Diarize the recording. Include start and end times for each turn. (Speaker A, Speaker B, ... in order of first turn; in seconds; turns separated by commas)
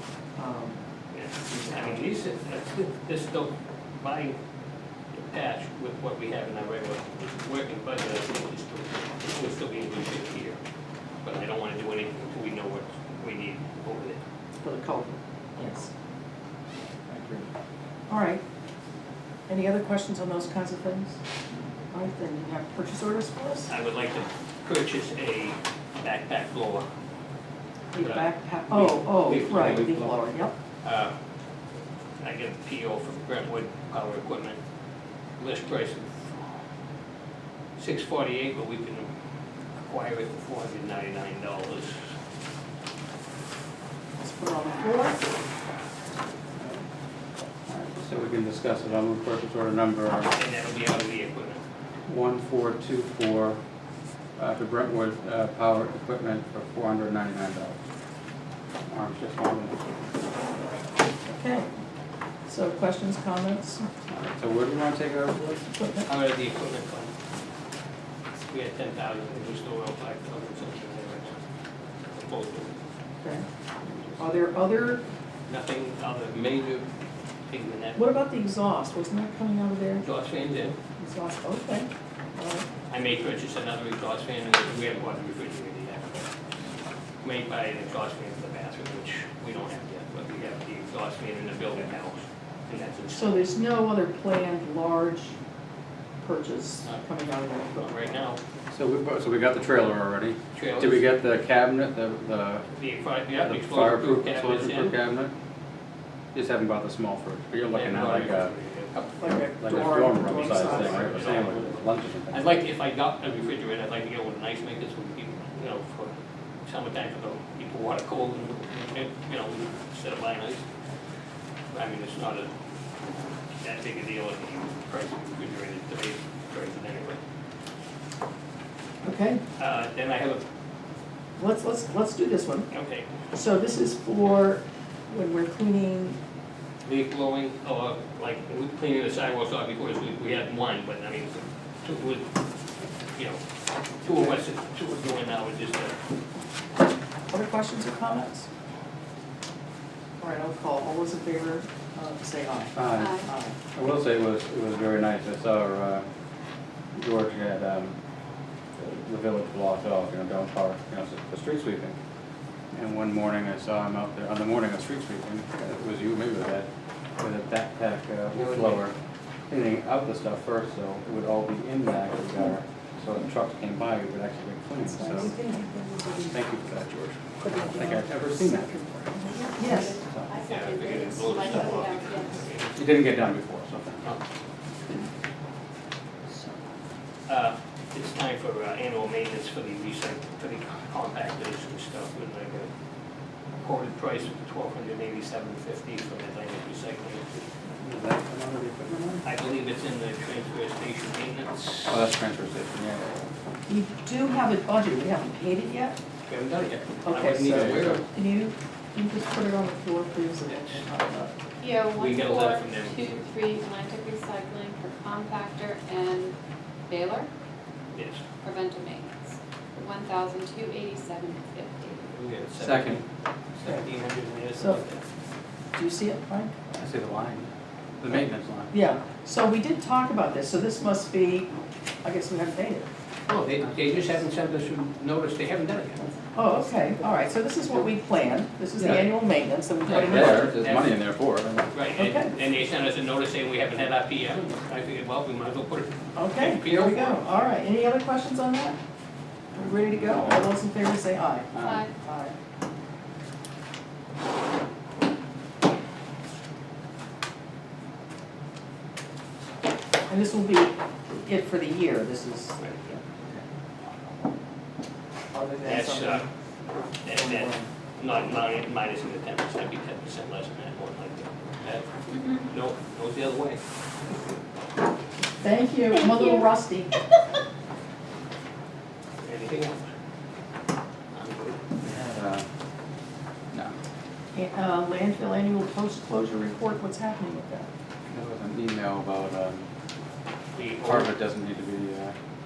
Speaker A: 0.4-0.8, Speaker B: 1.1-4.4, Speaker B: 5.1-10.6, Speaker B: 11.2-14.2, Speaker A: 14.6-15.9, Speaker A: 17.1-17.4, Speaker A: 18.1-18.4, Speaker A: 19.5-21.2, Speaker A: 21.9-23.7, Speaker B: 23.7-26.9, Speaker A: 27.9-30.5, Speaker B: 28.0-30.2, Speaker B: 30.8-31.1, Speaker B: 32.2-34.6, Speaker B: 35.4-36.1, Speaker B: 37.8-39.1, Speaker B: 39.8-42.0, Speaker A: 44.2-45.2, Speaker C: 47.7-50.3, Speaker B: 50.3-51.6, Speaker C: 52.1-53.6, Speaker C: 54.4-57.8, Speaker C: 58.9-59.8, Speaker A: 61.3-61.7, Speaker A: 62.5-63.9, Speaker C: 64.1-65.6, Speaker A: 65.5-66.1, Speaker B: 66.1-67.1, Speaker B: 68.5-71.4, Speaker B: 72.1-72.7, Speaker B: 73.9-74.2, Speaker A: 74.2-75.0, Speaker B: 75.5-76.8, Speaker B: 77.5-78.0, Speaker A: 77.9-80.1, Speaker B: 80.0-80.8, Speaker A: 81.0-82.7, Speaker B: 82.9-86.3, Speaker B: 87.2-93.5, Speaker A: 93.1-95.3, Speaker A: 96.2-98.1, Speaker B: 97.8-98.4, Speaker C: 98.7-102.7, Speaker B: 100.5-101.1, Speaker B: 102.7-105.0, Speaker C: 103.4-105.3, Speaker C: 106.3-108.5, Speaker B: 107.7-109.2, Speaker A: 109.2-111.4, Speaker C: 109.6-112.5, Speaker B: 110.4-120.6, Speaker B: 121.7-122.5, Speaker B: 123.6-127.2, Speaker A: 129.0-129.4, Speaker B: 129.6-130.4, Speaker A: 131.4-132.7, Speaker B: 132.7-133.1, Speaker A: 133.3-136.2, Speaker B: 136.8-142.3, Speaker B: 143.1-143.4, Speaker B: 144.0-146.0, Speaker A: 147.3-148.5, Speaker A: 150.2-153.5, Speaker C: 152.7-156.0, Speaker D: 153.0-153.3, Speaker C: 156.9-157.9, Speaker C: 158.8-161.9, Speaker C: 162.7-166.7, Speaker C: 167.2-168.9, Speaker B: 168.3-168.8, Speaker C: 169.5-175.4, Speaker A: 174.9-176.1, Speaker C: 176.3-178.8, Speaker A: 177.5-177.8, Speaker D: 179.2-182.4, Speaker A: 179.5-180.0, Speaker C: 180.0-180.3, Speaker B: 180.4-182.9, Speaker C: 182.7-184.2, Speaker D: 186.3-186.6, Speaker B: 187.3-192.7, Speaker B: 193.6-197.5, Speaker C: 197.8-199.2, Speaker B: 199.2-202.1, Speaker C: 201.9-203.2, Speaker A: 203.7-205.9, Speaker B: 206.3-208.0, Speaker A: 207.0-211.3, Speaker C: 207.4-208.0, Speaker B: 210.5-210.8, Speaker D: 211.6-216.3, Speaker B: 211.9-213.2, Speaker D: 216.9-217.3, Speaker B: 217.9-218.2, Speaker D: 218.4-222.1, Speaker B: 222.1-223.1, Speaker C: 222.5-223.0, Speaker B: 223.6-225.0, Speaker A: 224.6-224.8, Speaker A: 225.7-226.5, Speaker C: 226.7-228.7, Speaker A: 228.7-231.5, Speaker A: 232.0-232.9, Speaker B: 233.3-236.1, Speaker A: 236.3-240.5, Speaker C: 238.8-239.1, Speaker B: 239.8-241.0, Speaker C: 239.9-241.7, Speaker B: 241.7-247.4, Speaker A: 241.9-242.3, Speaker A: 246.1-248.8, Speaker A: 249.5-252.3, Speaker C: 249.9-250.4, Speaker C: 251.5-251.9, Speaker D: 251.6-251.9, Speaker A: 260.1-263.4, Speaker B: 262.6-262.8, Speaker A: 265.3-266.2, Speaker B: 265.6-266.2, Speaker B: 267.0-271.9, Speaker A: 267.1-267.7, Speaker D: 272.1-272.5, Speaker B: 272.4-273.6, Speaker A: 275.4-276.9, Speaker D: 275.9-276.5, Speaker B: 279.2-279.9, Speaker B: 281.1-281.6, Speaker C: 281.8-282.4, Speaker A: 284.3-287.7, Speaker C: 288.1-289.7, Speaker B: 290.5-291.1, Speaker C: 290.8-292.1